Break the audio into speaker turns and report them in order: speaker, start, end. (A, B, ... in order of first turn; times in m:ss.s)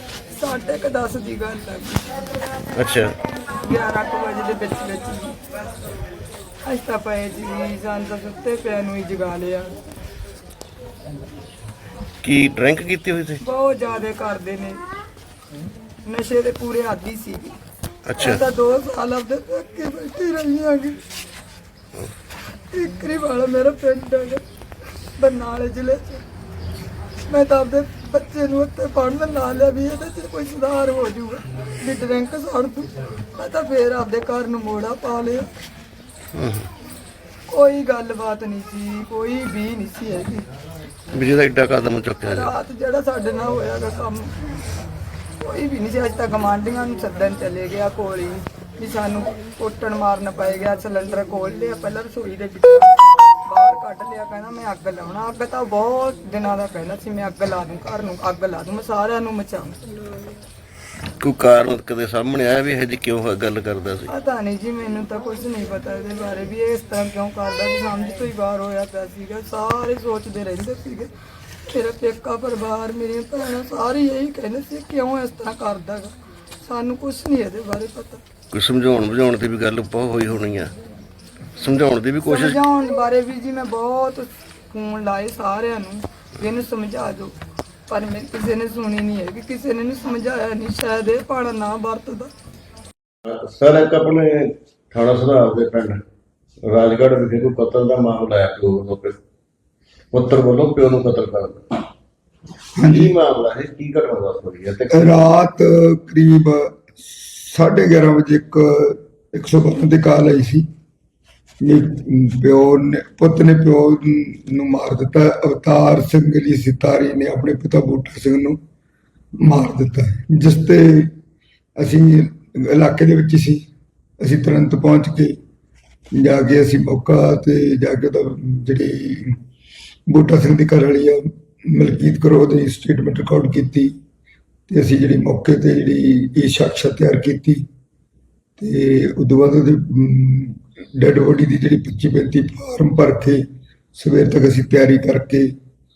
0:00.4-0:02.1 A
0:02.8-0:03.1 B
0:03.6-0:05.4 A
0:06.7-0:09.8 A
0:12.2-0:13.4 B
0:13.4-0:14.8 A
0:16.1-0:17.6 A
0:18.1-0:18.4 B
0:18.2-0:21.0 A
0:22.7-0:24.4 A
0:25.2-0:26.2 A
0:27.3-0:35.5 A
0:36.4-0:36.7 B
0:37.5-0:40.5 A
0:41.1-0:42.5 B
0:42.2-0:44.6 A
0:45.4-1:00.2 A
1:01.2-1:04.1 B
1:04.1-1:11.1 A
1:11.6-1:18.2 A
1:18.5-1:20.7 B
1:21.6-1:22.6 B
1:22.2-1:27.3 A
1:27.9-1:32.3 A
1:33.3-1:36.0 B
1:36.6-1:39.2 B
1:40.1-1:41.6 B
1:42.8-1:43.1 C
1:42.8-1:45.2 B
1:44.9-1:50.6 C
1:51.6-1:58.6 C
1:59.4-2:01.1 C
2:01.8-2:03.6 C
2:04.2-2:05.4 C
2:06.1-2:09.4 C
2:10.1-2:14.0 C
2:14.7-2:17.6 C
2:18.6-2:23.4 C
2:24.0-2:25.5 C